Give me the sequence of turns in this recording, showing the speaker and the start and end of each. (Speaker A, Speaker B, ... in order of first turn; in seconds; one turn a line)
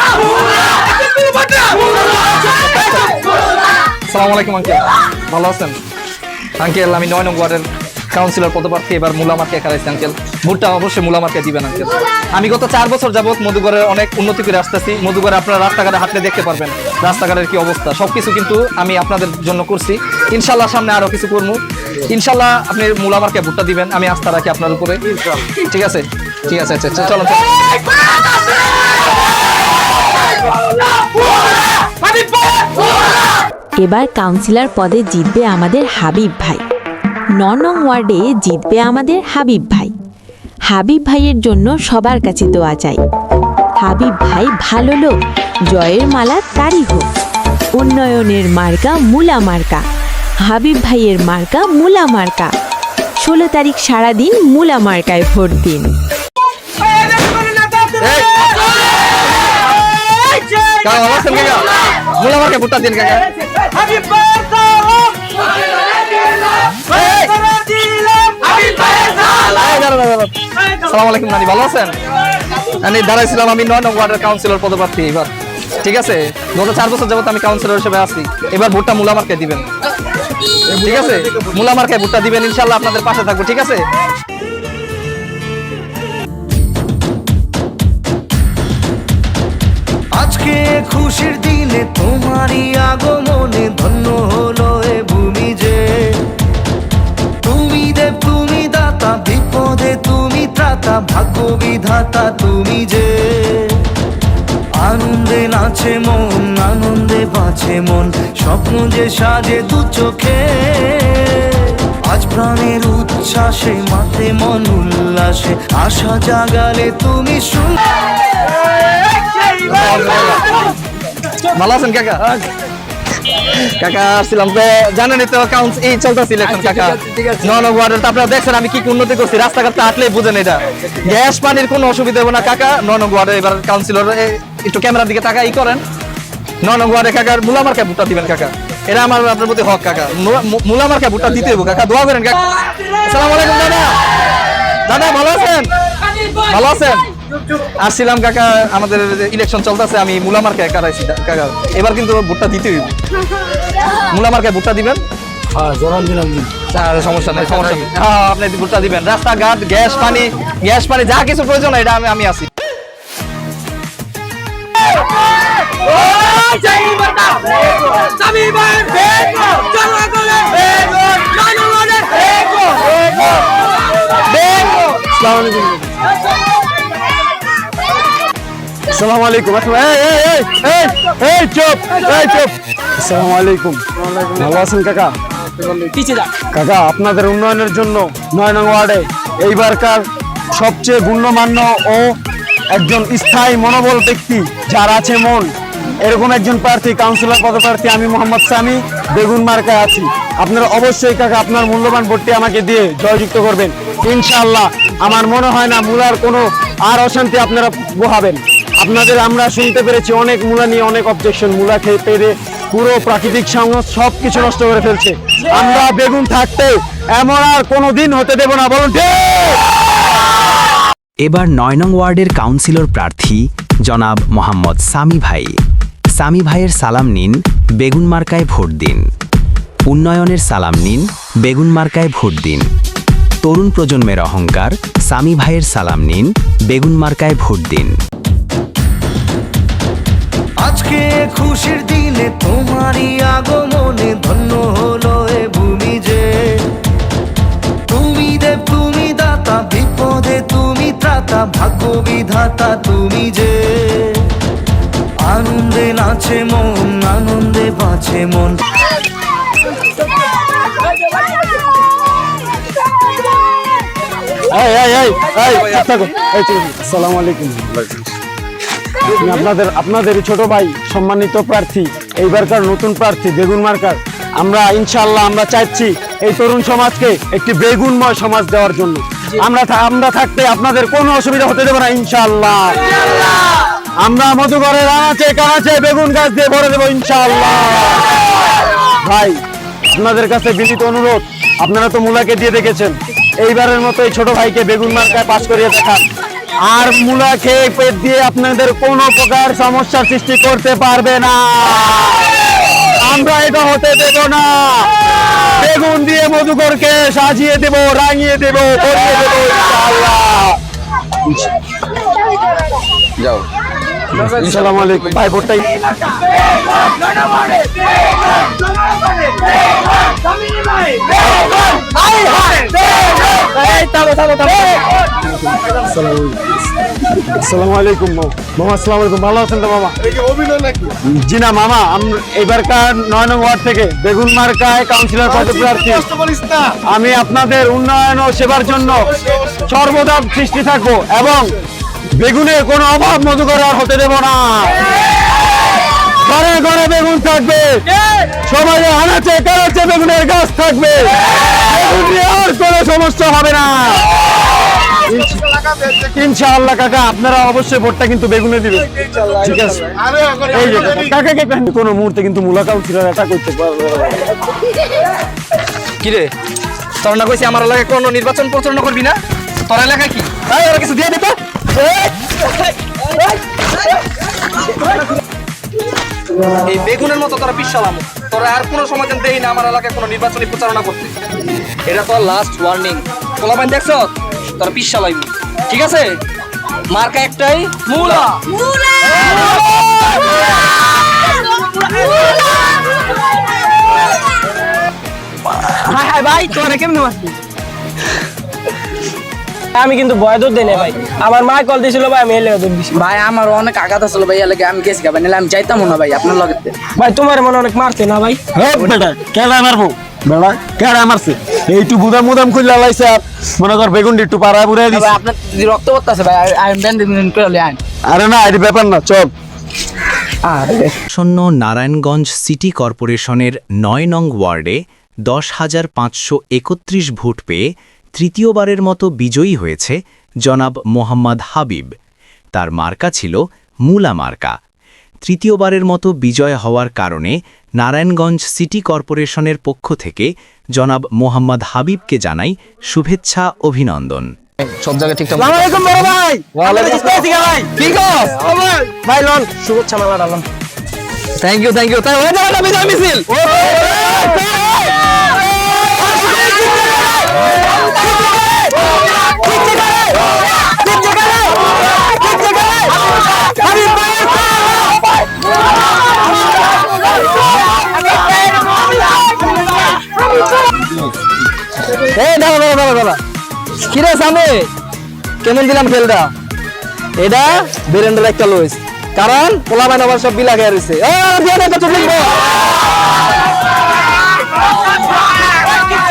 Speaker A: 1.2-3.2
Speaker A: 4.1-5.8
Speaker A: 6.6-25.0
Speaker A: 25.7-27.4
Speaker B: 33.8-36.6
Speaker B: 37.3-39.9
Speaker B: 40.7-43.0
Speaker B: 43.8-45.1
Speaker B: 45.7-47.1
Speaker B: 47.7-49.8
Speaker B: 50.4-52.5
Speaker B: 53.2-55.9
Speaker A: 58.0-58.7
Speaker A: 60.7-63.2
Speaker A: 66.9-67.8
Speaker A: 68.3-71.9
Speaker A: 72.7-75.3
Speaker A: 75.8-79.7
Speaker A: 80.7-83.8
Speaker C: 90.1-96.2
Speaker C: 97.4-103.8
Speaker C: 104.8-117.8
Speaker A: 119.6-120.5
Speaker A: 121.5-122.2
Speaker A: 123.4-135.8
Speaker A: 136.6-142.4
Speaker A: 143.0-143.9
Speaker A: 144.9-145.7
Speaker A: 146.3-147.1
Speaker A: 147.8-152.9
Speaker A: 154.1-155.0
Speaker D: 155.9-156.4
Speaker A: 156.7-162.4
Speaker E: 166.3-167.4
Speaker E: 168.4-172.1
Speaker D: 172.8-173.3
Speaker D: 174.5-175.9
Speaker D: 178.9-185.1
Speaker E: 185.7-186.3
Speaker D: 186.5-192.1
Speaker D: 192.7-219.6
Speaker F: 221.2-225.5
Speaker F: 226.2-229.0
Speaker F: 229.9-232.7
Speaker F: 233.4-237.9
Speaker C: 240.6-246.7
Speaker C: 247.9-254.3
Speaker C: 255.2-258.6
Speaker D: 264.5-268.1
Speaker D: 269.0-282.7
Speaker D: 284.0-288.2
Speaker D: 289.0-289.4
Speaker D: 289.9-296.0
Speaker D: 296.6-310.6
Speaker D: 314.2-315.9
Speaker A: 321.7-324.8
Speaker D: 325.8-326.6
Speaker D: 327.3-329.9
Speaker D: 330.9-336.1
Speaker D: 336.7-341.5
Speaker D: 342.2-344.8
Speaker D: 346.1-354.1
Speaker D: 355.0-355.4
Speaker D: 356.1-364.2
Speaker A: 366.0-366.3
Speaker A: 367.0-369.1
Speaker A: 369.7-372.1
Speaker A: 376.6-381.1
Speaker A: 381.9-386.1
Speaker A: 386.9-388.4
Speaker E: 395.6-397.4
Speaker E: 399.7-402.9
Speaker G: 402.9-406.8
Speaker E: 406.9-408.4
Speaker D: 408.6-415.1
Speaker G: 414.9-417.8
Speaker D: 418.1-419.3
Speaker G: 420.4-420.9
Speaker F: 421.1-427.6
Speaker F: 428.2-431.9
Speaker F: 432.5-434.5
Speaker F: 435.2-444.3
Speaker A: 444.7-447.2
Speaker E: 445.4-447.7
Speaker A: 447.8-448.4
Speaker E: 448.4-450.4
Speaker A: 451.4-453.2
Speaker E: 461.0-461.2
Speaker A: 472.0-473.2
Speaker A: 473.9-474.7
Speaker A: 475.4-476.3
Speaker A: 477.2-482.4